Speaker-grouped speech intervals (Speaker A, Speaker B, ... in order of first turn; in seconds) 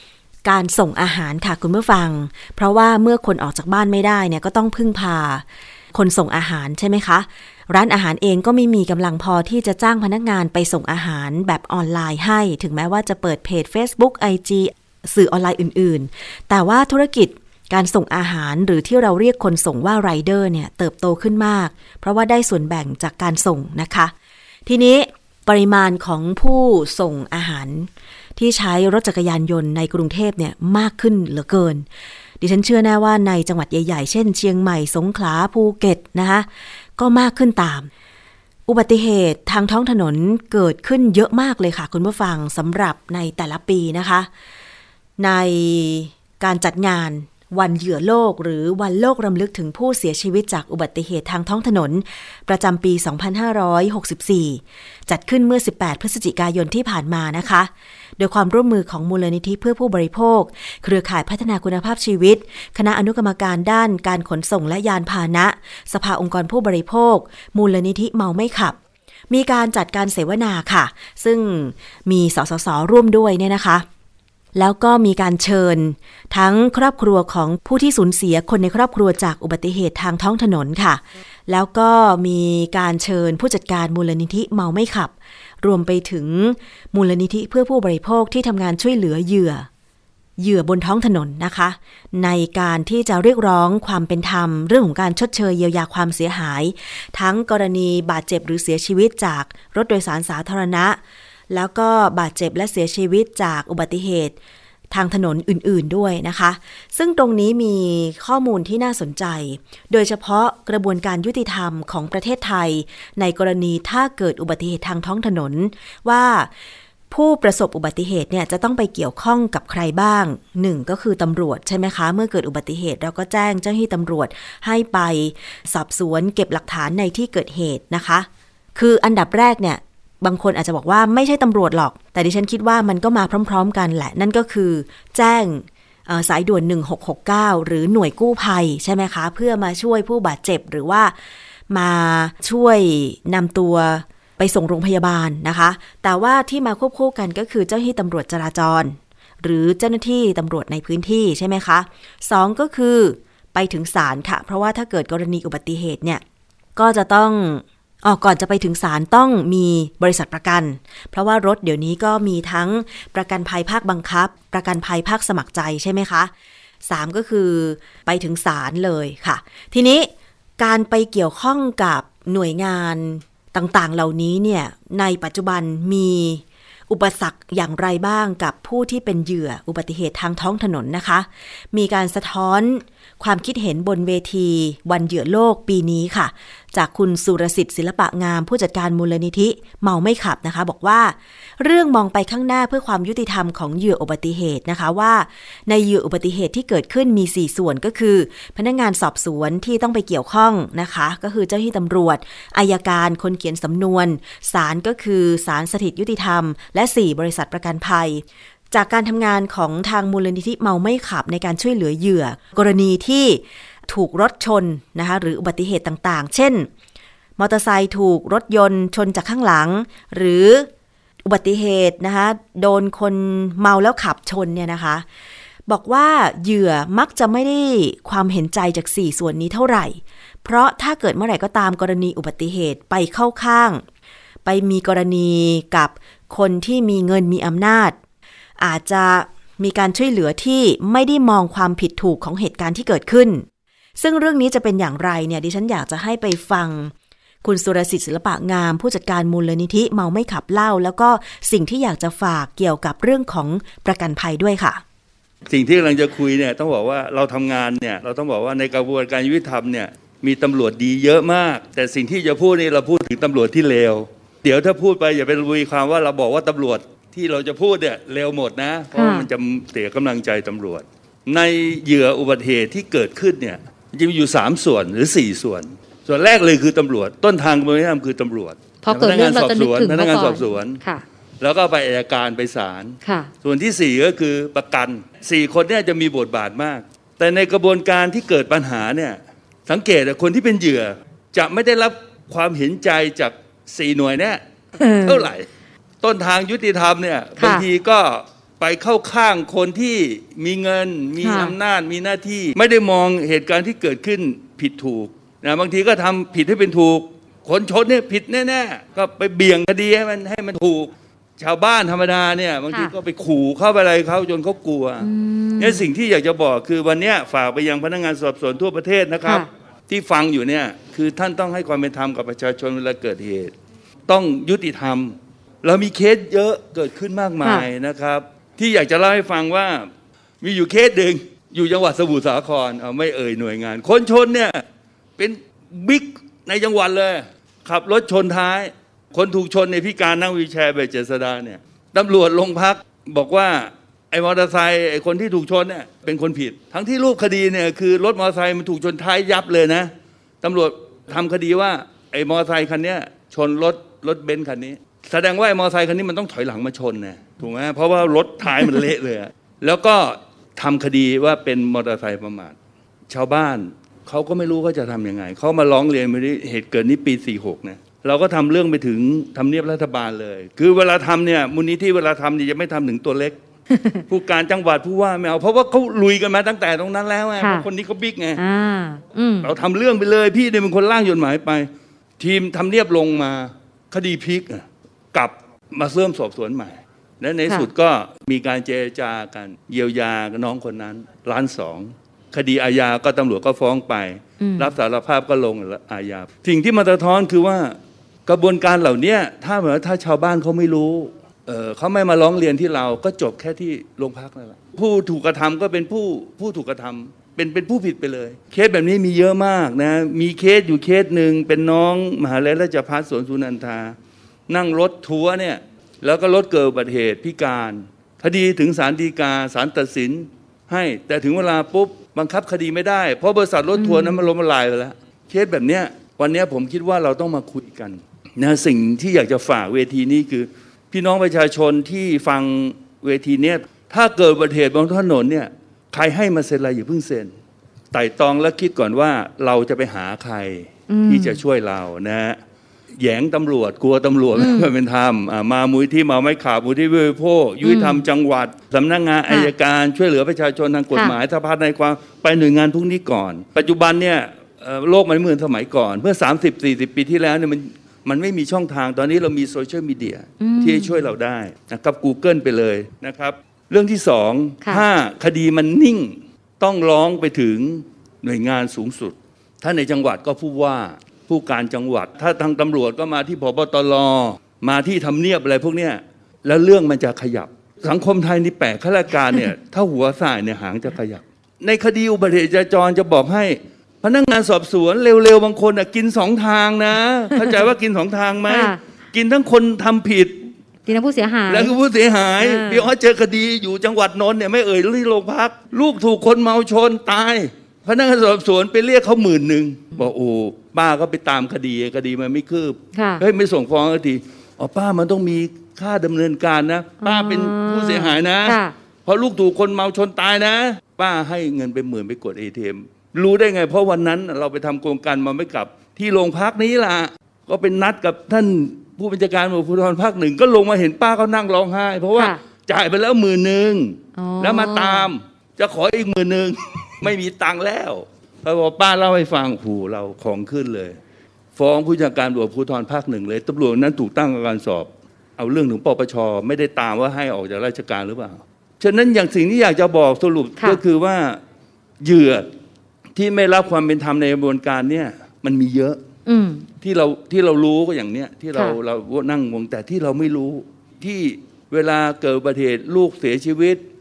Speaker A: 0.4-24.1, 24.7-31.9, 32.4-37.9, 38.7-44.3, 45.2-68.8, 69.3-73.9, 74.5-89.7, 90.4-101.0, 101.5-104.4, 104.9-116.5, 117.1-141.2, 141.7-156.2, 156.8-166.3, 166.8-216.7, 217.4-220.7, 221.2-225.1, 225.7-233.8, 234.4-238.0, 238.6-243.5, 244.0-246.9, 247.4-254.8
Speaker B: 255.5-280.8, 281.4-295.5, 296.0-323.5, 324.1-334.6, 335.2-349.9, 350.4-362.6, 363.1-373.4, 374.1-378.4, 379.4-414.0, 414.5-437.3, 437.9-442.4, 442.9-490.5, 491.5-531.0, 531.6-541.4, 542.0-542.5, 543.1-546.0, 546.8-553.8
Speaker C: 269.0-269.3, 278.8-281.0, 283.0-283.3, 294.8-295.3, 297.4-297.6, 301.2-301.6, 315.0-315.9, 373.7-374.0, 377.4-377.7, 378.4-379.5, 394.4-394.7, 423.8-424.2, 440.9-441.4, 444.4-444.7, 447.6-448.1, 460.4-461.0, 488.5-488.8, 490.9-491.7, 492.4-492.9, 502.9-503.2, 507.0-508.8, 524.2-525.1, 546.3-546.7